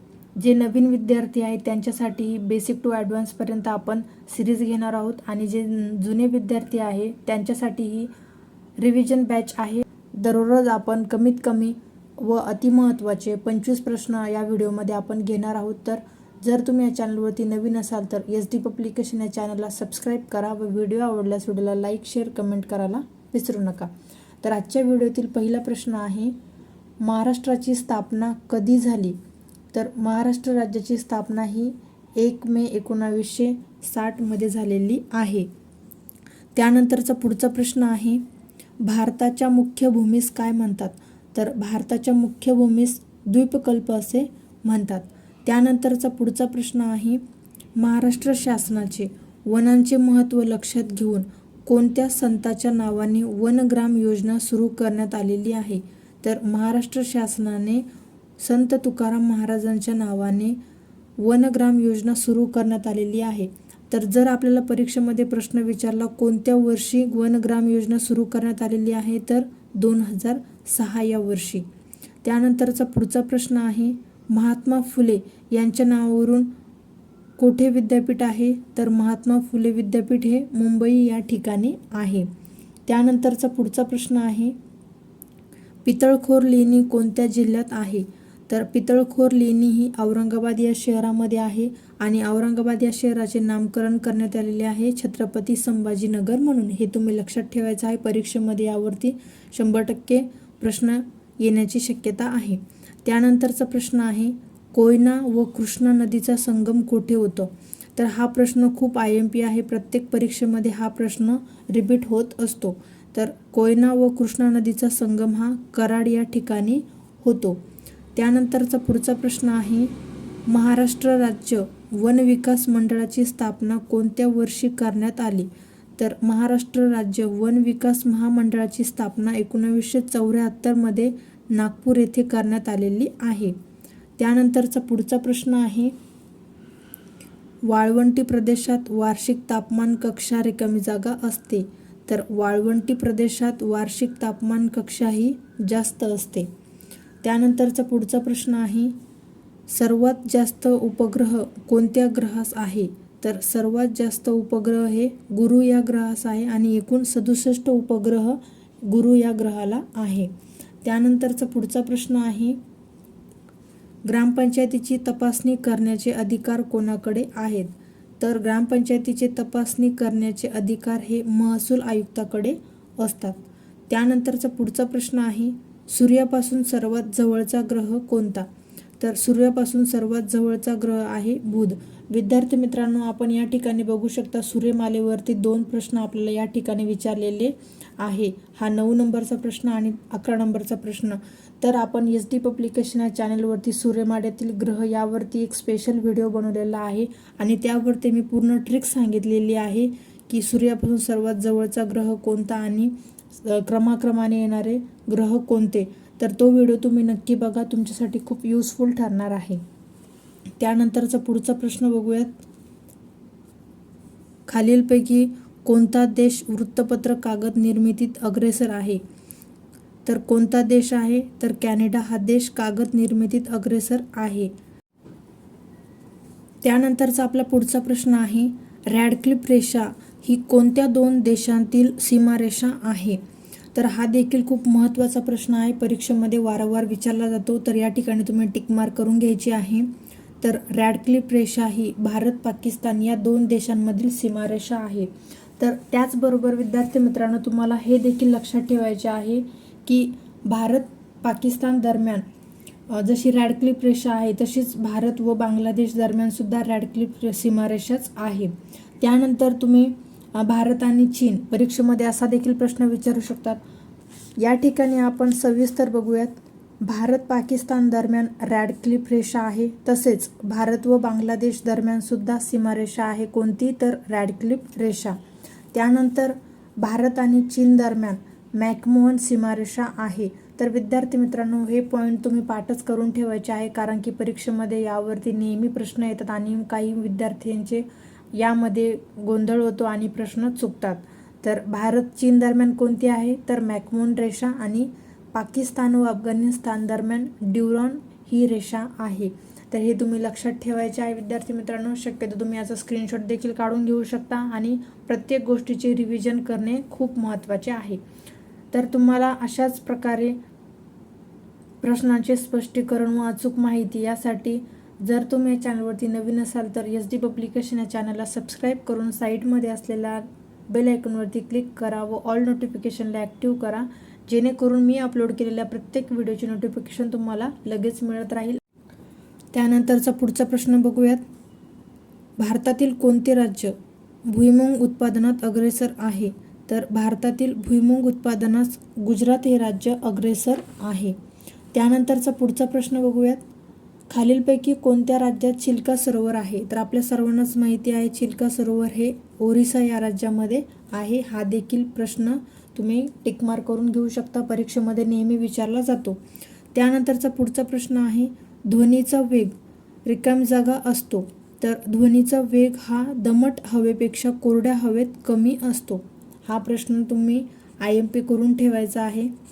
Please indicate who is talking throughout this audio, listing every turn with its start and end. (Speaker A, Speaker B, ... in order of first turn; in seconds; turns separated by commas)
Speaker A: 0.4-8.1, Speaker A: 8.8-23.9, Speaker A: 24.4-26.4, Speaker A: 27.0-29.2, Speaker A: 29.7-35.5, Speaker A: 36.5-38.2, Speaker A: 38.8-47.2, Speaker A: 47.8-57.9, Speaker A: 58.4-60.6, Speaker A: 61.2-71.7, Speaker A: 72.2-76.5, Speaker A: 77.4-82.3, Speaker A: 82.9-84.6, Speaker A: 85.8-117.6, Speaker A: 118.2-119.9, Speaker A: 120.5-133.6, Speaker A: 134.2-135.9, Speaker A: 137.7-146.5, Speaker A: 147.2-148.9, Speaker A: 149.7-160.3, Speaker A: 160.8-162.6, Speaker A: 164.1-178.5, Speaker A: 179.0-209.6, Speaker A: 210.6-212.4, Speaker A: 214.5-219.0, Speaker A: 220.1-224.5, Speaker A: 226.6-233.2, Speaker A: 233.7-252.2, Speaker A: 252.9-263.6, Speaker A: 264.4-275.2, Speaker A: 275.7-308.0, Speaker A: 308.7-310.4, Speaker A: 311.8-328.6, Speaker A: 329.5-331.2, Speaker A: 332.4-333.8, Speaker A: 334.3-341.2, Speaker A: 341.7-343.4, Speaker A: 344.1-356.2, Speaker A: 356.7-369.3